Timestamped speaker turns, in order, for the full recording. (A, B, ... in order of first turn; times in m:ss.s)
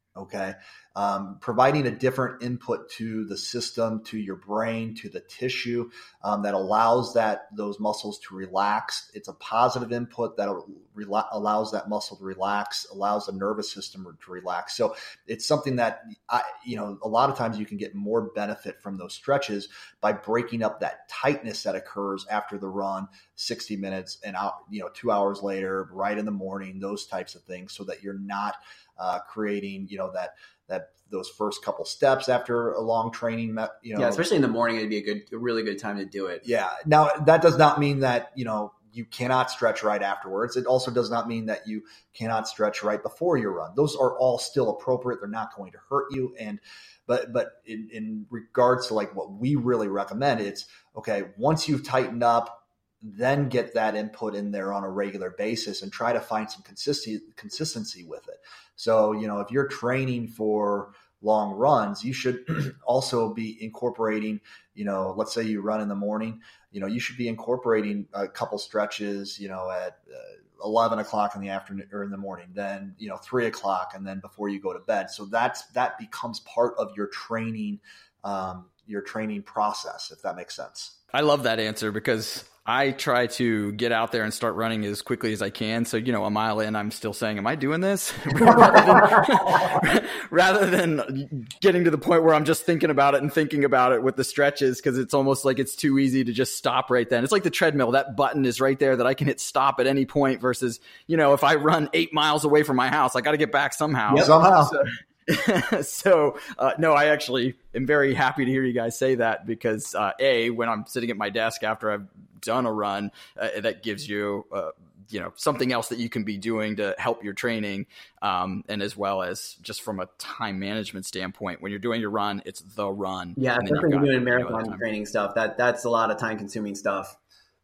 0:00.2-0:34.2 A
0:34.0-0:36.4 B
0:36.4-1:21.0 A
1:21.1-2:04.8 C
1:44.1-1:44.7 A
2:03.4-2:07.1 B